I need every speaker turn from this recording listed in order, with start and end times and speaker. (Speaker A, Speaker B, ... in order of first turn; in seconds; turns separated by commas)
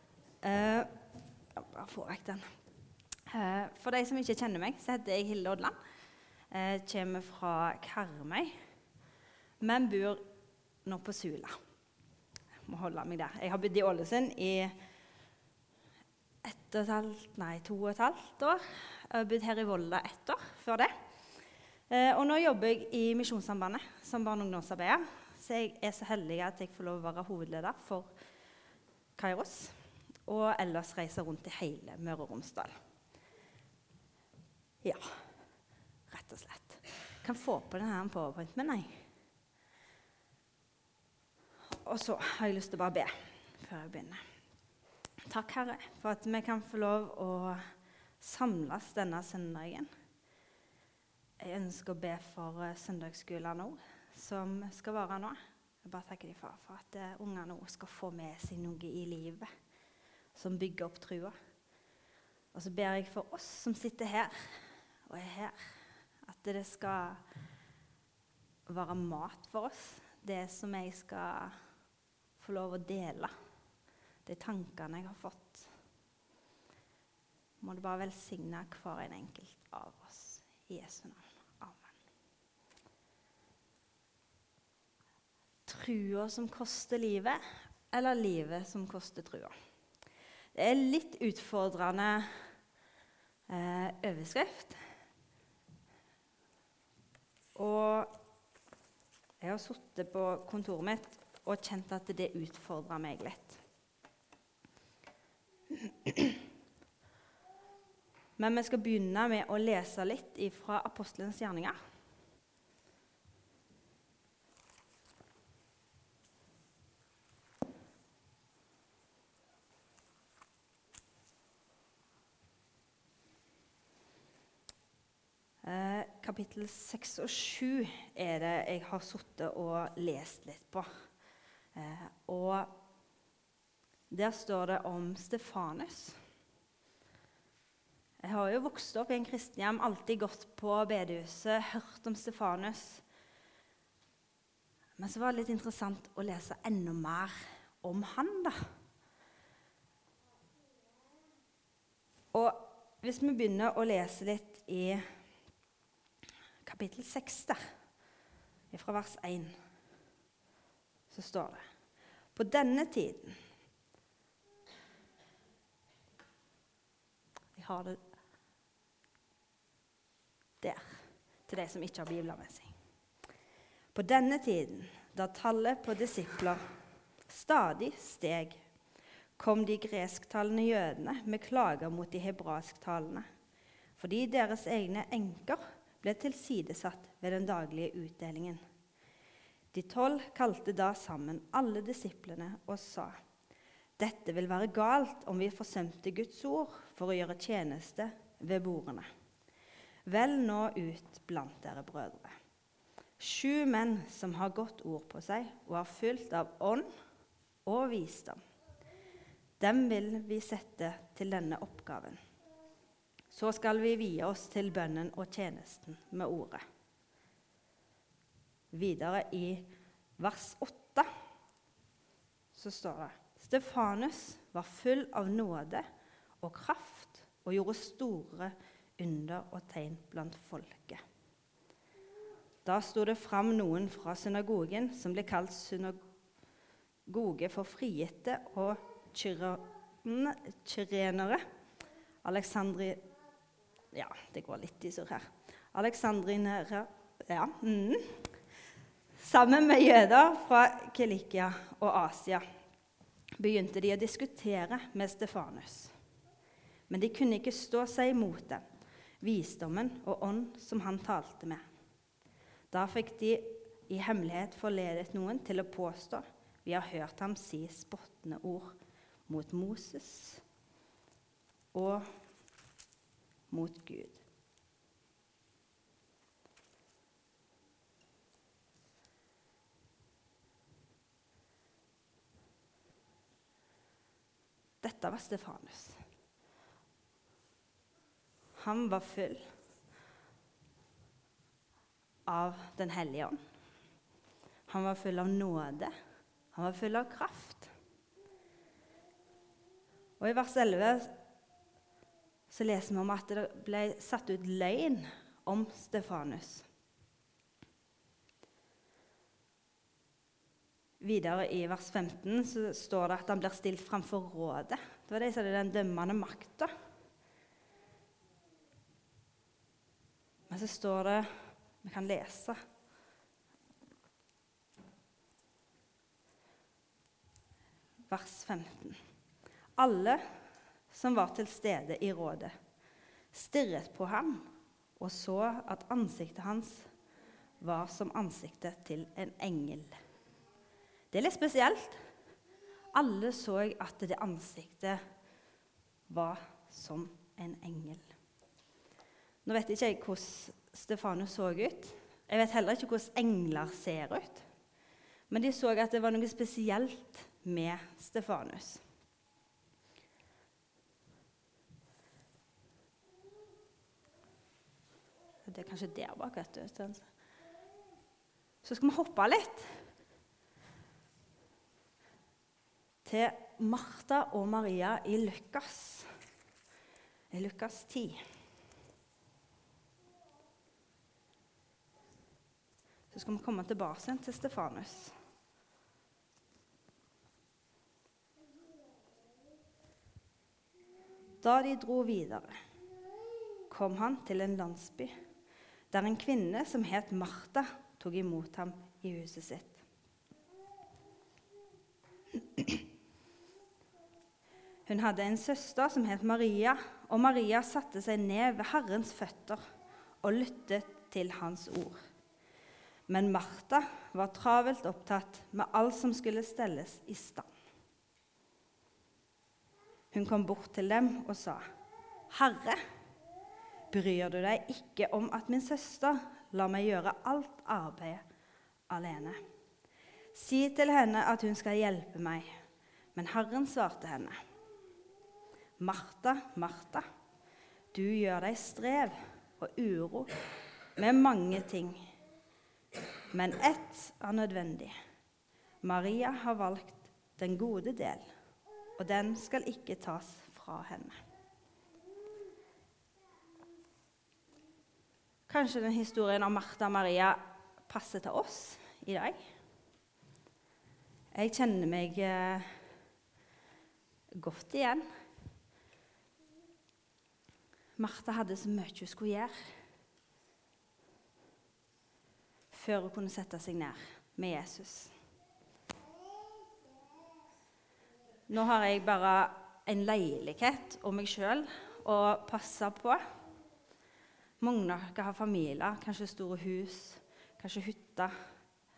Speaker A: 0.4-0.9, Speaker A: 1.6-2.4, Speaker A: 3.3-5.8, Speaker A: 6.5-8.6, Speaker A: 9.6-10.2, Speaker A: 10.8-11.6, Speaker A: 12.7-14.8, Speaker A: 16.4-20.9, Speaker A: 21.9-28.1, Speaker A: 29.2-29.8, Speaker A: 30.3-32.8, Speaker A: 34.8-35.1, Speaker A: 36.1-39.1, Speaker A: 41.8-44.2, Speaker A: 45.2-47.6, Speaker A: 48.2-49.9, Speaker A: 51.4-59.5, Speaker A: 60.4-61.4, Speaker A: 62.5-65.7, Speaker A: 66.3-67.2, Speaker A: 68.7-71.6, Speaker A: 72.4-73.3, Speaker A: 74.2-75.7, Speaker A: 77.6-81.9, Speaker A: 85.7-89.5, Speaker A: 90.5-92.4, Speaker A: 93.5-94.8, Speaker A: 97.5-98.1, Speaker A: 99.4-103.6, Speaker A: 105.8-106.4, Speaker A: 108.4-111.8, Speaker A: 125.6-130.9, Speaker A: 131.8-132.8, Speaker A: 134.1-136.2, Speaker A: 138.2-143.0, Speaker A: 145.0-148.6, Speaker A: 152.3-155.1, Speaker A: 156.6-157.6, Speaker A: 158.7-159.6, Speaker A: 161.1-161.6, Speaker A: 162.4-163.4, Speaker A: 167.6-168.0, Speaker A: 170.6-172.7, Speaker A: 173.9-176.6, Speaker A: 177.3-178.6, Speaker A: 179.4-183.3, Speaker A: 184.0-188.6, Speaker A: 189.7-193.2, Speaker A: 194.0-199.1, Speaker A: 200.1-202.3, Speaker A: 203.2-206.9, Speaker A: 207.7-208.4, Speaker A: 209.6-212.2, Speaker A: 213.3-216.6, Speaker A: 218.7-221.1, Speaker A: 222.5-225.9, Speaker A: 226.4-231.0, Speaker A: 232.7-236.0, Speaker A: 237.1-241.4, Speaker A: 242.2-243.0, Speaker A: 243.9-248.3, Speaker A: 249.2-252.4, Speaker A: 253.4-255.9, Speaker A: 256.9-258.6, Speaker A: 259.2-261.6, Speaker A: 262.7-270.4, Speaker A: 271.7-272.1, Speaker A: 273.5-274.2, Speaker A: 284.8-286.0, Speaker A: 288.6-289.5, Speaker A: 292.3-293.4, Speaker A: 294.7-295.9, Speaker A: 296.5-297.7, Speaker A: 300.2-301.1, Speaker A: 302.5-306.7, Speaker A: 311.0-316.7, Speaker A: 320.5-322.6, Speaker A: 328.1-329.0, Speaker A: 329.8-330.2, Speaker A: 330.9-332.5, Speaker A: 333.3-334.5, Speaker A: 335.0-336.9, Speaker A: 337.6-340.0, Speaker A: 341.1-342.0, Speaker A: 342.9-345.0, Speaker A: 346.1-348.1, Speaker A: 349.4-354.5, Speaker A: 355.3-358.8, Speaker A: 365.5-367.0, Speaker A: 368.6-369.9, Speaker A: 373.1-376.1, Speaker A: 377.3-378.2, Speaker A: 383.1-385.1, Speaker A: 391.4-392.6, Speaker A: 393.7-395.1, Speaker A: 395.9-399.8, Speaker A: 402.4-402.8, Speaker A: 404.9-409.6, Speaker A: 410.2-412.0, Speaker A: 413.1-417.5, Speaker A: 420.1-421.6, Speaker A: 422.3-422.8, Speaker A: 423.9-428.2, Speaker A: 428.9-429.4, Speaker A: 430.3-432.6, Speaker A: 433.1-434.4, Speaker A: 435.8-437.1, Speaker A: 437.9-440.3, Speaker A: 441.0-442.1, Speaker A: 443.3-444.9, Speaker A: 445.8-448.3, Speaker A: 449.0-451.2, Speaker A: 455.5-459.4, Speaker A: 461.4-462.7, Speaker A: 464.4-465.1, Speaker A: 468.0-469.8, Speaker A: 472.7-475.1, Speaker A: 478.5-483.2, Speaker A: 484.6-488.3